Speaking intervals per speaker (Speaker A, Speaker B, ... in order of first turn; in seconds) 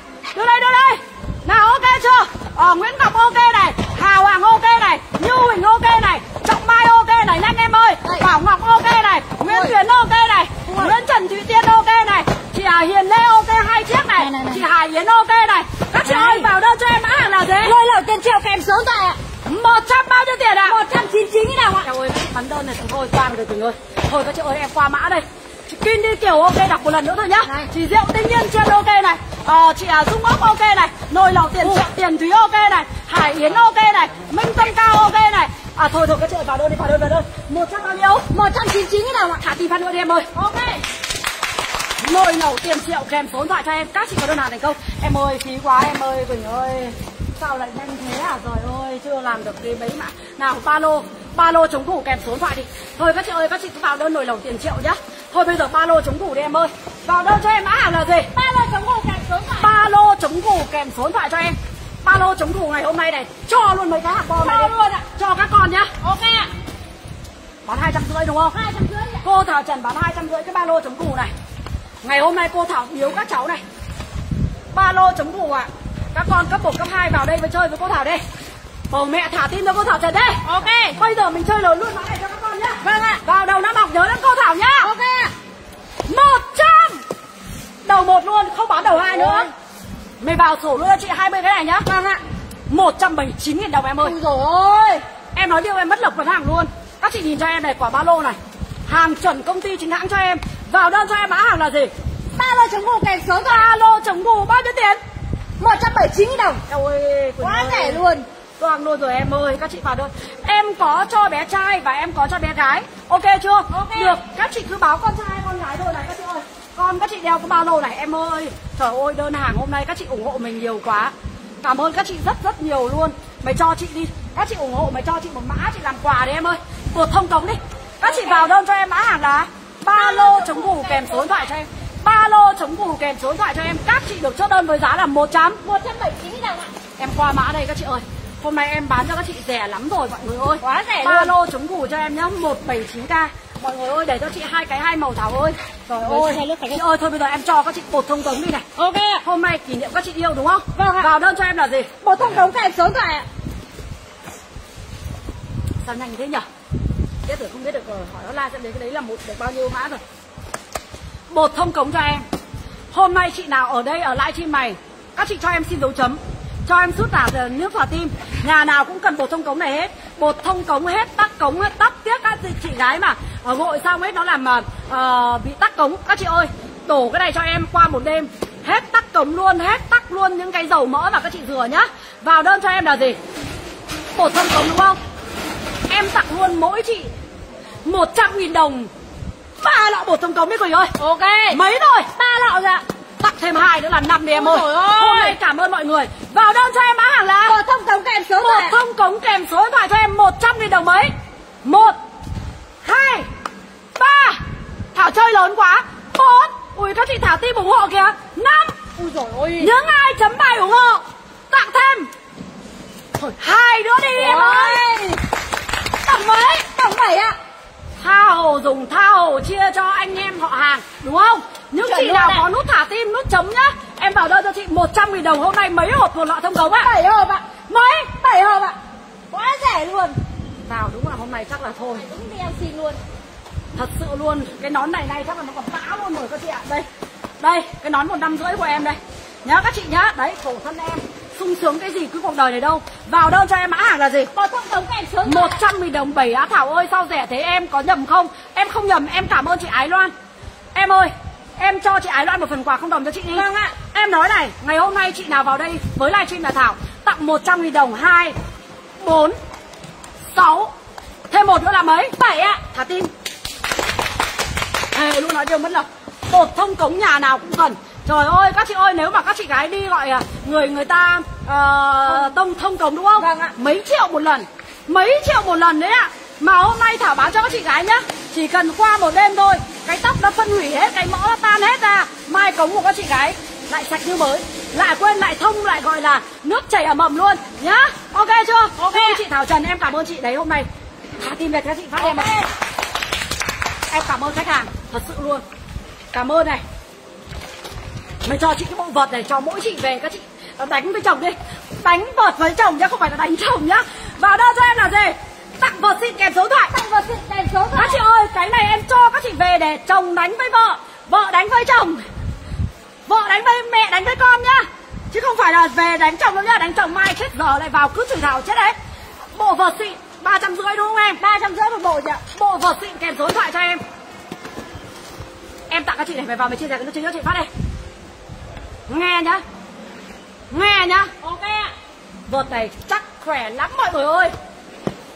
Speaker A: 0.3-17.8, 19.4-20.8, 21.8-38.3, 39.4-40.3, 42.0-58.3, 59.6-65.9, 67.6-68.6, 69.2-71.3, 72.0-73.6, 74.7-78.2, 78.9-84.9, 86.1-87.0, 87.8-89.5, 90.2-91.9, 92.7-94.2, 95.3-101.9, 103.4-105.0, 106.7-108.0, 108.6-135.6, 137.0-148.7, 149.2-151.9, 155.8-156.4, 157.3-160.0, 161.3-162.2, 162.9-183.2, 184.2-185.0, 185.9-187.1, 187.8-188.9, 189.6-190.9, 191.5-192.1, 193.2-197.6, 198.4-201.1, 201.6-201.9, 202.8-203.3, 204.0-204.4, 204.9-208.8, 209.6-212.1, 213.2-214.8, 218.0-226.9, 227.8-228.0, 230.7-232.0, 233.7-236.8, 237.4-244.3, 245.2-250.1, 250.7-258.4, 259.0-259.4, 260.3-260.7, 261.3-263.1, 264.9-290.7, 291.2-292.3, 293.9-295.4, 296.1-296.6, 298.2-306.7, 307.8-312.0, 313.1-318.7, 319.3-321.2, 322.3-323.8, 325.7-327.5, 328.9-329.4, 330.5-331.1, 332.3-334.3
Speaker B: 9.4-9.8, 10.7-10.9, 14.2-14.6, 16.0-16.5, 17.6-19.2, 20.6-21.9, 38.3-39.4, 40.3-40.8, 58.3-59.7, 64.3-65.0, 66.0-66.5, 68.5-69.2, 80.4-81.0, 82.8-83.2, 84.8-85.3, 88.8-89.5, 91.8-92.2, 94.0-95.0, 102.3-103.7, 105.6-106.6, 107.4-108.3, 113.7-114.2, 128.0-128.5, 129.9-131.4, 135.6-136.7, 140.6-141.3, 146.0-146.8, 148.8-149.2, 150.8-151.1, 152.0-153.3, 191.0-191.6, 192.2-192.8, 194.3-195.4, 197.4-198.8, 209.0-209.7, 214.1-215.2, 216.0-217.4, 221.8-222.4, 226.7-228.8, 229.3-230.2, 232.0-233.0, 244.3-245.6, 253.3-253.8, 273.2-273.5, 288.8-289.2, 292.0-292.5, 306.7-308.0, 321.2-322.2, 331.2-331.7